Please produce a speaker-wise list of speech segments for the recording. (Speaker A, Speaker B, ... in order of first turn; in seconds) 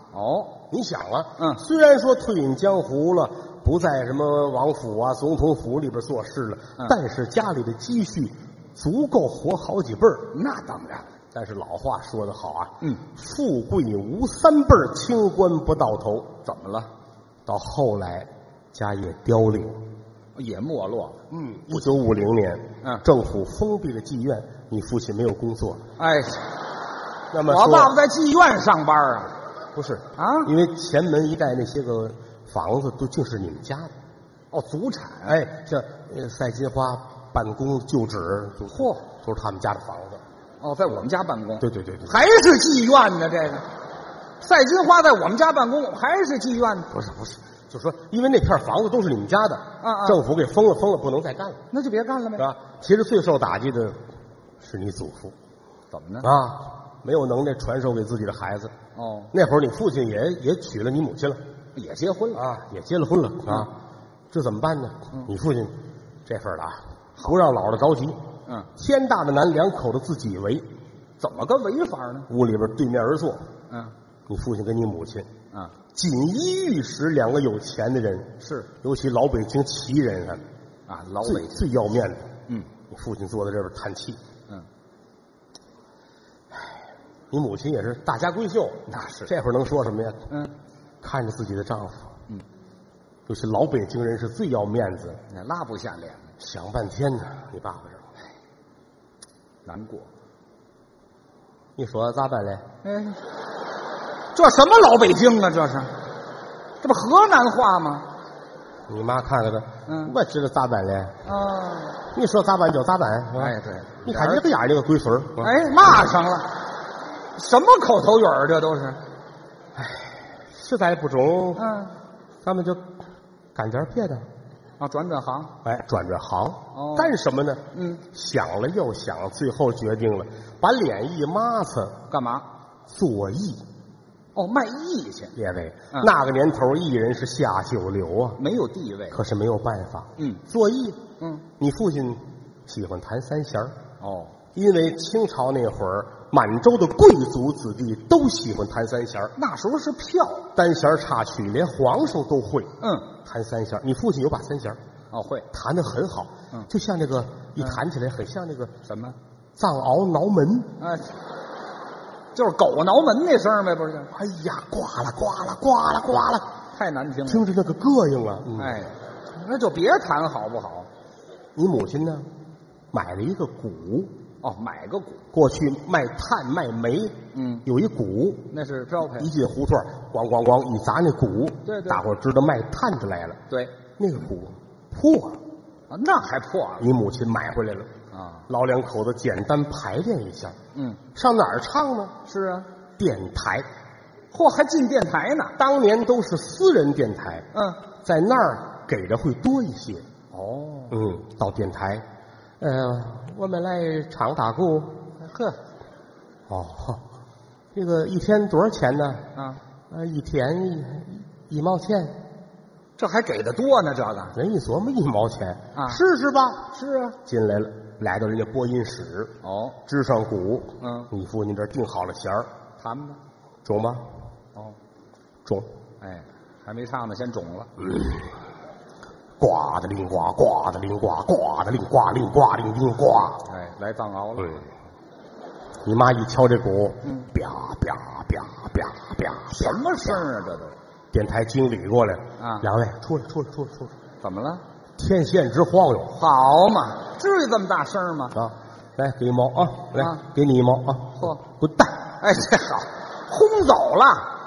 Speaker A: 0.1-0.6, 10.3-11.1, 16.4-16.9, 20.4-21.2, 26.0-26.4, 27.4-29.3, 30.1-30.5, 34.5-35.4, 38.7-39.0, 40.6-43.6, 44.4-46.9, 49.8-50.2, 51.7-52.5, 55.9-56.3, 58.9-59.3, 61.7-62.4, 71.2-72.3, 78.4-78.7, 80.9-81.6, 88.9-89.3, 95.3-96.3, 99.7-100.1, 102.8-103.2, 104.3-105.9, 106.8-108.1, 109.9-110.1, 111.2-112.0, 113.3-114.4, 115.4-116.5, 117.3-119.0, 121.5-121.9, 124.8-125.5, 126.7-127.1, 127.7-128.0, 132.1-132.4, 134.3-135.3, 138.4-139.2, 144.0-144.3, 149.3-150.5, 152.8-153.1, 155.1-155.5, 158.8-159.2, 160.8-161.1, 162.3-164.1, 166.7-167.4, 168.6-170.9, 174.4-175.2, 177.3-177.7, 178.5-179.3, 181.7-182.0, 183.5-183.7, 185.9-186.9, 188.1-188.4, 190.7-191.0, 192.3-192.7, 194.3-195.5, 197.5-197.8, 200.3-200.9, 205.2-205.6, 213.0-214.3, 215.7-216.0, 216.7-217.2, 219.4-219.8, 220.8-221.1, 222.8-223.2, 226.0-227.7, 233.4-234.6, 237.0-237.3, 239.5-240.7, 242.4-242.7, 244.2-244.6, 246.1-248.3, 249.9-250.2, 252.2-254.3
Speaker B: 0.7-10.3, 11.3-16.3, 17.4-19.8, 21.3-25.8, 27.3-27.9, 29.7-33.9, 35.3-40.2, 41.6-42.2, 46.9-51.6, 52.4-54.0, 54.6-55.3, 56.2-58.7, 59.3-61.4, 62.3-63.7, 64.3-68.2, 68.8-70.7, 72.3-73.4, 74.3-75.3, 75.9-80.4, 81.2-82.3, 82.9-84.2, 87.3-90.3, 91.0-92.1, 93.3-95.2, 96.4-98.0, 101.8-102.6, 108.9-111.2, 112.1-115.5, 119.8-121.6, 122.4-122.8, 123.5-124.3, 125.6-132.0, 132.9-133.6, 135.3-138.4, 139.1-141.0, 141.6-143.8, 144.5-149.3, 150.5-154.8, 155.5-158.7, 159.6-160.7, 164.1-166.5, 167.2-168.8, 171.6-172.3, 172.9-174.1, 175.3-178.5, 179.1-183.4, 184.0-185.4, 186.8-187.9, 188.5-190.6, 191.1-192.1, 193.0-193.7, 195.6-197.5, 198.0-200.1, 200.9-202.1, 202.6-204.9, 206.5-207.0, 207.7-209.3, 209.9-212.2, 214.3-216.7, 217.2-222.5, 223.6-224.1, 227.8-228.2, 229.4-233.4, 235.8-240.2, 241.1-243.9, 245.0-246.1, 248.3-252.1